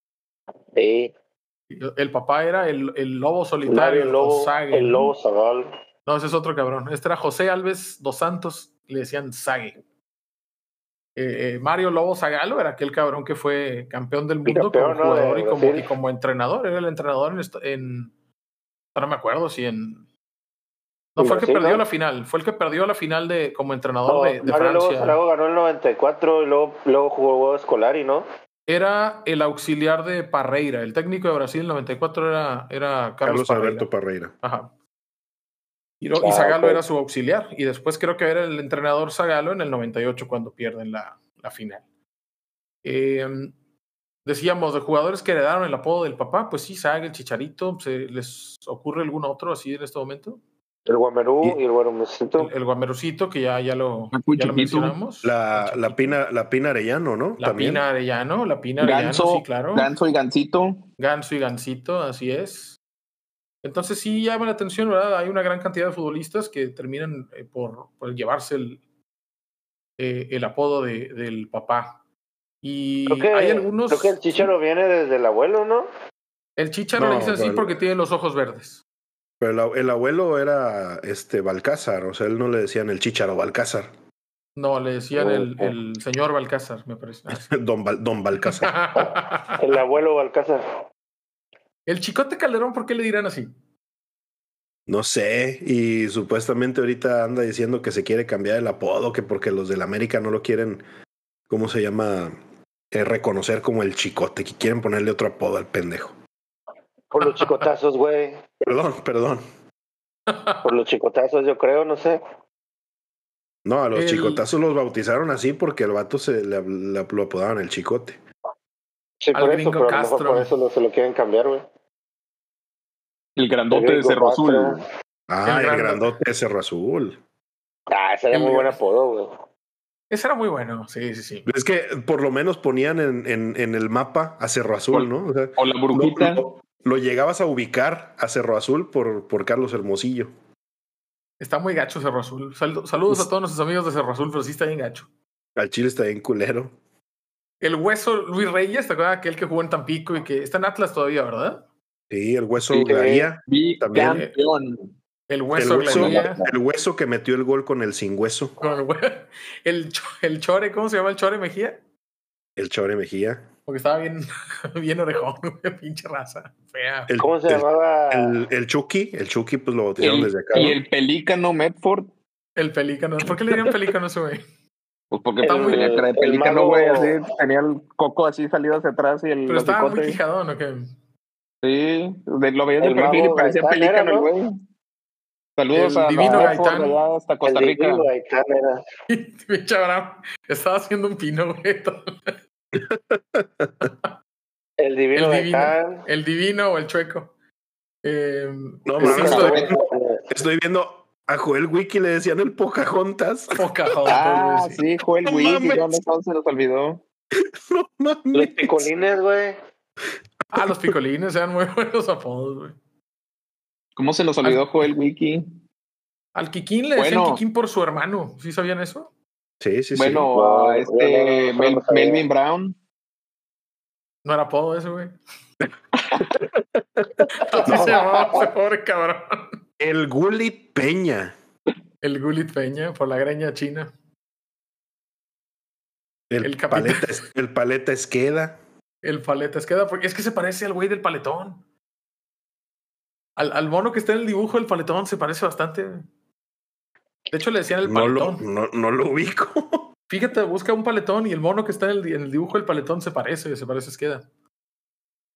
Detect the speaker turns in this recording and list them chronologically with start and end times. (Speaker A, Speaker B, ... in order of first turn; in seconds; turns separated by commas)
Speaker A: 0.8-1.1, Speaker B: 1.7-5.1, Speaker A: 3.7-5.7, Speaker B: 6.1-9.8, Speaker B: 11.2-18.1, Speaker A: 14.5-15.9, Speaker B: 18.9-20.1, Speaker B: 21.2-25.2, Speaker A: 21.2-21.8, Speaker A: 24.1-28.3, Speaker B: 28.7-33.9, Speaker C: 33.2-34.3, Speaker B: 34.4-34.7, Speaker B: 36.0-41.8, Speaker A: 36.2-36.8, Speaker B: 42.8-43.5, Speaker B: 44.2-50.4, Speaker A: 50.9-52.5, Speaker B: 52.4-56.2, Speaker D: 54.1-55.0, Speaker C: 55.2-57.8, Speaker B: 57.4-59.9, Speaker D: 58.8-60.9, Speaker B: 61.0-62.8, Speaker B: 63.6-68.8, Speaker B: 70.0-72.0, Speaker B: 72.6-74.5, Speaker A: 73.1-75.9, Speaker B: 76.6-78.8, Speaker C: 77.0-77.8, Speaker C: 79.4-83.9, Speaker B: 84.6-87.5, Speaker C: 87.3-88.8, Speaker B: 88.5-89.6, Speaker A: 89.6-90.6, Speaker B: 91.9-93.5, Speaker C: 94.9-100.8, Speaker C: 101.5-102.4, Speaker C: 102.9-106.2, Speaker A: 107.1-108.5, Speaker B: 107.2-107.6, Speaker C: 108.6-109.4, Speaker B: 110.3-110.7, Speaker A: 110.6-112.2, Speaker C: 113.7-118.2, Speaker B: 114.0-114.5, Speaker A: 119.2-121.7, Speaker B: 119.3-120.5, Speaker D: 123.4-124.8, Speaker A: 123.7-124.8, Speaker C: 125.3-127.2, Speaker B: 125.5-126.1, Speaker A: 127.9-129.3, Speaker B: 128.3-128.8, Speaker B: 130.1-131.5, Speaker C: 131.5-140.3, Speaker D: 134.9-136.4, Speaker B: 141.4-145.1, Speaker C: 145.6-146.8, Speaker B: 147.6-151.6, Speaker C: 152.1-154.3, Speaker D: 152.7-154.9, Speaker A: 152.8-153.3, Speaker B: 154.0-154.3, Speaker B: 155.3-156.4, Speaker C: 155.6-158.6, Speaker D: 155.8-156.5, Speaker B: 158.6-161.8, Speaker C: 162.6-163.5, Speaker B: 163.7-167.1, Speaker C: 167.1-170.8, Speaker A: 167.2-168.4, Speaker D: 170.0-172.1, Speaker B: 172.6-174.4, Speaker D: 175.1-180.2, Speaker B: 175.4-176.1, Speaker A: 175.4-177.2, Speaker B: 179.5-180.9, Speaker D: 181.6-184.6, Speaker A: 182.8-184.3, Speaker D: 185.6-188.1, Speaker B: 185.7-187.0, Speaker A: 186.2-186.6, Speaker A: 187.5-188.8, Speaker B: 189.1-192.3, Speaker C: 192.7-193.9, Speaker A: 194.8-196.1, Speaker B: 195.1-197.3, Speaker B: 198.0-199.7, Speaker C: 198.9-203.7, Speaker A: 199.0-200.2, Speaker D: 199.1-199.7, Speaker B: 203.6-204.8, Speaker D: 204.1-207.0, Speaker C: 205.2-206.0, Speaker C: 207.4-208.9, Speaker A: 208.3-209.6, Speaker B: 210.5-212.8, Speaker C: 210.6-210.9, Speaker D: 214.0-215.6, Speaker B: 214.4-214.8, Speaker B: 216.3-219.1, Speaker D: 217.0-217.4, Speaker C: 219.6-220.3, Speaker D: 219.9-222.8, Speaker A: 220.3-222.2, Speaker B: 224.2-225.2, Speaker C: 226.3-228.0, Speaker B: 227.3-229.6, Speaker A: 227.6-228.5, Speaker C: 229.8-231.3, Speaker B: 232.0-233.9, Speaker C: 236.3-238.6, Speaker B: 236.4-237.2, Speaker B: 239.0-241.6, Speaker B: 243.4-246.1, Speaker B: 247.3-248.4, Speaker C: 247.8-249.9, Speaker B: 250.1-254.3